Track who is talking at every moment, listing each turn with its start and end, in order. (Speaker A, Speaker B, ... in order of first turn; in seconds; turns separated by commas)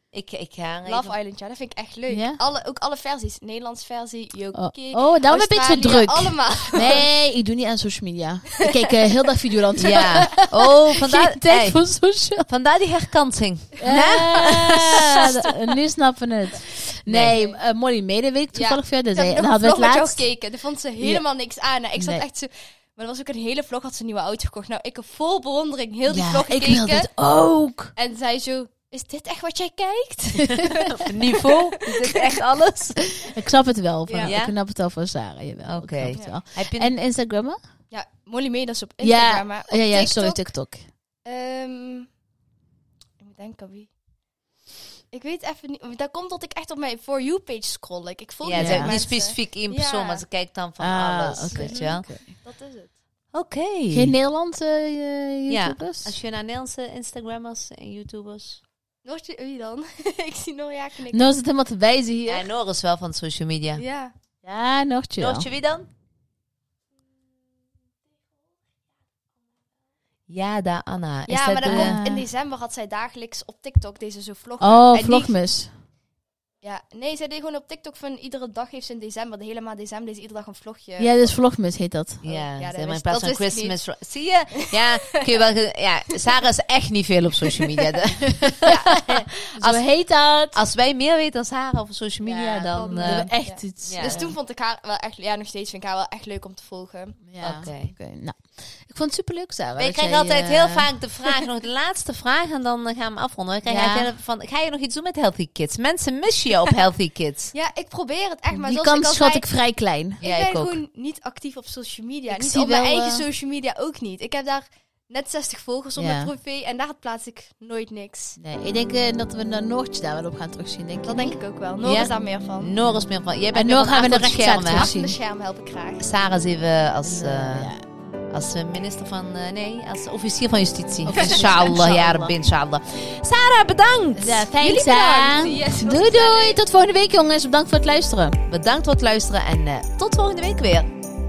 Speaker A: 0.1-1.2, Speaker B: 0.9-7.1, Speaker C: 2.1-2.4, Speaker C: 4.5-12.5, Speaker B: 8.6-8.9, Speaker A: 9.8-11.8, Speaker A: 12.4-15.2, Speaker C: 13.8-20.3, Speaker A: 17.1-17.4, Speaker B: 17.3-17.6, Speaker B: 18.5-27.1, Speaker C: 21.9-22.2, Speaker C: 26.1-27.9, Speaker B: 28.0-32.1, Speaker C: 30.4-30.9, Speaker A: 31.0-33.1, Speaker C: 33.2-37.6, Speaker B: 34.1-34.3, Speaker A: 34.2-34.5, Speaker A: 35.6-36.9, Speaker B: 37.9-40.5, Speaker C: 39.0-40.8, Speaker B: 41.2-42.1, Speaker B: 43.2-43.9, Speaker B: 45.1-50.2, Speaker A: 48.4-52.1, Speaker C: 48.5-49.0, Speaker C: 50.8-52.3, Speaker B: 51.5-52.9, Speaker A: 53.3-54.1, Speaker C: 53.9-56.2, Speaker A: 55.5-58.6, Speaker B: 59.0-61.3, Speaker C: 61.1-62.5, Speaker A: 62.3-63.8, Speaker B: 63.8-64.1, Speaker C: 64.4-65.5, Speaker A: 65.2-65.9, Speaker A: 70.3-72.0, Speaker B: 71.3-75.3, Speaker C: 71.6-72.3, Speaker C: 74.6-75.7, Speaker B: 76.6-81.3, Speaker C: 81.0-82.2, Speaker A: 82.2-89.8, Speaker B: 82.2-83.8, Speaker B: 88.6-89.3, Speaker C: 89.6-90.6, Speaker A: 90.5-94.2, Speaker C: 92.2-94.3, Speaker B: 92.8-97.2, Speaker C: 97.3-100.9, Speaker A: 97.4-97.9, Speaker A: 99.8-107.5, Speaker C: 103.7-104.1, Speaker B: 107.5-109.5, Speaker C: 108.5-110.2, Speaker A: 110.2-110.8, Speaker B: 110.2-118.4, Speaker C: 112.3-113.3, Speaker C: 116.0-116.3, Speaker C: 118.4-121.4, Speaker B: 121.1-122.8, Speaker A: 121.8-124.9, Speaker C: 123.5-125.2, Speaker B: 124.6-126.1, Speaker A: 126.0-127.7, Speaker C: 127.0-127.8, Speaker A: 128.3-134.5, Speaker C: 131.1-132.3, Speaker B: 131.2-131.4, Speaker C: 134.2-138.4, Speaker B: 134.6-136.6, Speaker A: 138.5-140.9